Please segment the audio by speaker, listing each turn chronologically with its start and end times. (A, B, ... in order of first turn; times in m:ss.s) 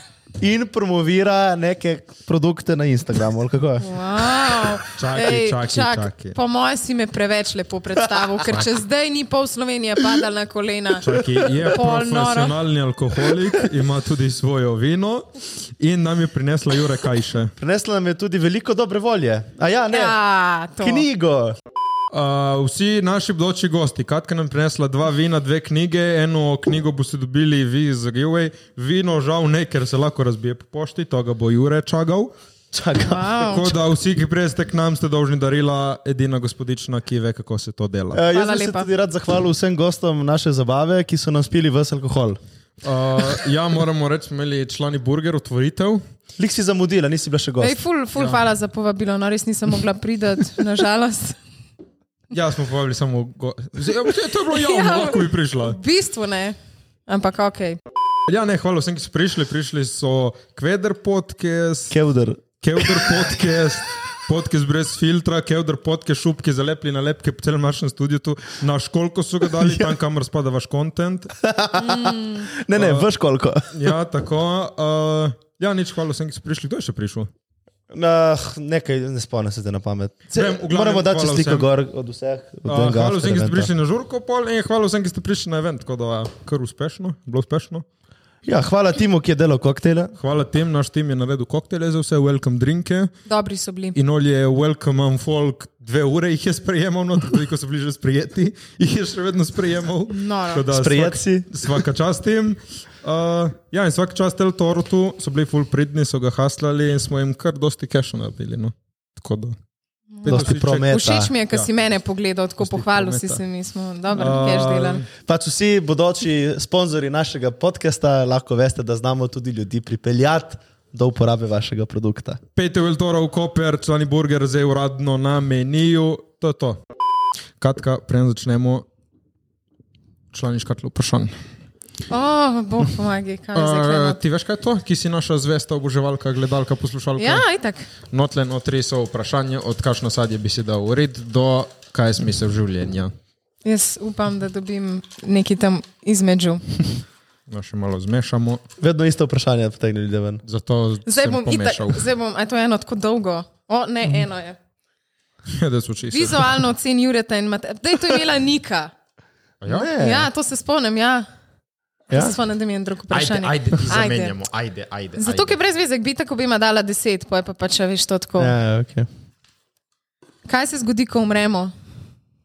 0:00.4-0:04.0 A
0:03.8-0:12.5 B
0:04.9-0:06.4 C
0:11.0-0:15.2 C
0:15.8-0:17.5 C
0:17.6-0:20.2 A
0:19.9-0:21.0 B
0:20.8-0:21.6 A
0:22.1-0:32.3 C
0:32.7-0:33.4 A
0:33.0-0:33.7 B
0:33.4-0:38.2 C
0:38.1-0:42.4 A
0:38.3-0:38.9 B
0:42.8-0:46.0 C
0:46.4-0:47.8 A
0:47.6-0:51.4 B
0:52.3-0:55.8 C
0:54.5-0:56.6 B
0:57.1-0:57.8 B
0:58.3-1:02.0 C
1:01.9-1:03.3 A
1:02.6-1:11.3 C
1:09.6-1:09.9 A
1:11.4-1:13.9 A
1:11.8-1:12.5 B
1:12.7-1:13.0 C
1:13.7-1:17.3 C
1:17.9-1:23.7 A
1:20.3-1:21.7 C
1:22.6-1:27.8 C
1:28.4-1:30.1 A
1:30.2-1:33.1 C
1:33.3-1:34.0 B
1:33.9-1:49.6 C
1:40.1-1:40.6 B
1:40.7-1:41.5 A
1:50.1-1:55.0 B
1:50.2-1:50.9 C
1:50.3-1:51.3 A
1:52.6-1:53.4 C
1:54.1-1:55.0 C
1:55.2-2:02.4 A
2:02.6-2:06.8 C
2:07.6-2:08.8 C
2:10.3-2:11.3 C
2:12.1-2:14.2 B
2:13.5-2:17.4 C
2:17.2-2:17.9 B
2:18.0-2:23.1 C
2:23.6-2:26.6 B
2:27.5-2:28.6 C
2:28.8-2:30.4 A
2:30.4-2:32.0 C
2:31.0-2:34.6 B
2:35.5-2:36.5 C
2:36.1-2:38.9 B
2:39.6-2:39.9 C
2:39.7-2:40.3 A
2:39.7-2:41.3 B
2:42.1-2:44.3 B
2:42.1-2:42.4 A
2:43.1-2:45.6 C
2:45.2-2:48.5 B
2:48.4-2:49.1 A
2:50.4-2:51.7 B